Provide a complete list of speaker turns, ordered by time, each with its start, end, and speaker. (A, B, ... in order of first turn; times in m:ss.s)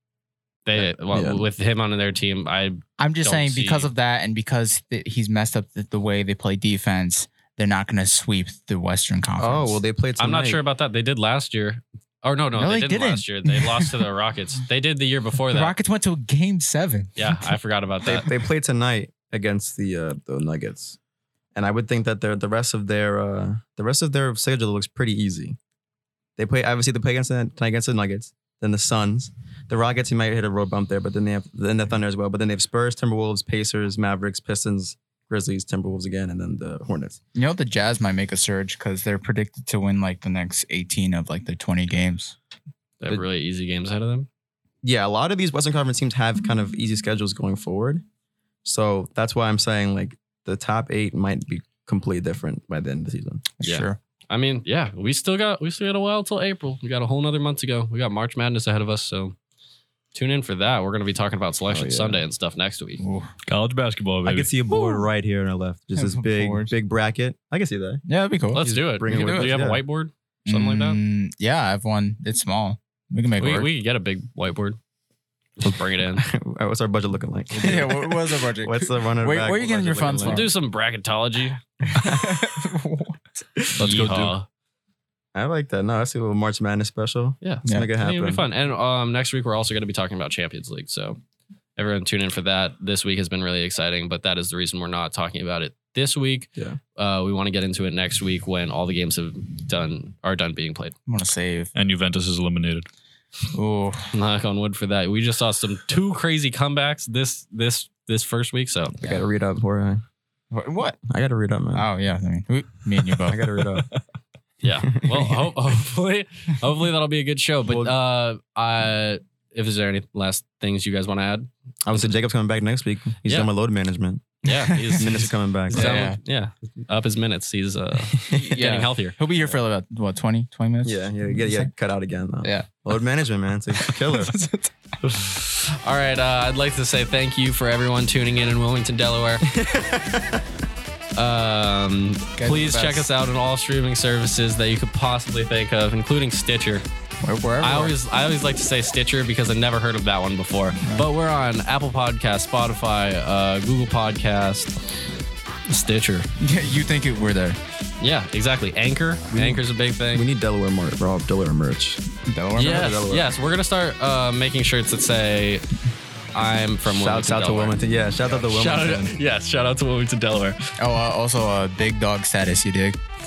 0:00.6-0:03.9 A
0:00.8-0:01.4 B
0:03.0-0:09.8 C
0:09.4-0:10.6 B
0:10.2-0:15.7 A
0:12.6-0:14.0 C
0:15.5-0:17.6 C
0:17.2-0:18.3 A
0:18.0-0:21.0 B
0:21.5-0:25.6 B
0:26.4-0:37.2 B
0:37.3-0:42.3 C
0:43.0-0:44.3 A
0:44.8-0:48.0 B
0:48.6-0:53.5 B
0:53.6-0:54.0 C
0:53.6-0:59.4 A
1:00.1-1:03.0 A
1:01.7-1:02.2 B
1:03.0-1:03.3 C
1:03.5-1:04.5 D
1:04.2-1:08.0 B
1:04.7-1:05.1 C
1:06.0-1:06.7 C
1:08.1-1:09.6 C
1:08.5-1:11.0 A
1:08.6-1:09.8 B
1:10.4-1:13.7 C
1:13.4-1:14.8 A
1:15.6-1:16.3 A
1:15.6-1:20.5 B
1:17.5-1:20.5 C
1:20.2-1:21.6 A
1:21.9-1:23.2 C
1:21.9-1:22.6 B
1:23.8-1:24.3 D
1:23.8-1:24.5 A
1:25.3-1:28.5 B
1:27.4-1:31.2 A
1:27.6-1:27.9 C
1:31.8-1:40.9 A
1:41.1-1:41.7 C
1:41.7-1:42.9 D
1:43.5-1:44.1 C
1:44.1-1:49.0 A
1:49.0-1:50.0 B
1:50.5-1:51.0 C
1:51.1-1:51.9 B
1:51.7-1:53.9 C
1:53.1-1:54.0 B
1:54.6-2:02.1 A
1:54.9-1:55.4 B
1:57.6-1:57.9 B
2:01.8-2:04.3 B
2:03.2-2:03.5 A
2:04.4-2:09.2 A
2:04.7-2:06.2 C
2:05.0-2:06.1 B
2:08.2-2:08.8 B
2:08.5-2:11.7 C
2:10.8-2:14.4 B
2:12.4-2:12.7 C
2:13.8-2:14.7 C
2:15.0-2:19.4 A
2:19.4-2:20.4 B
2:21.2-2:26.8 A
2:22.4-2:23.1 C
2:27.2-2:28.0 C
2:27.6-2:34.8 A
2:35.7-2:36.3 A
2:36.4-2:37.6 C
2:38.0-2:40.2 A
2:39.3-2:42.0 B
2:42.3-2:43.0 C
2:42.6-2:45.7 A
2:42.6-2:43.3 B
2:46.3-2:47.8 A
2:46.9-2:49.2 B
2:48.3-2:50.7 A
2:50.8-2:53.0 C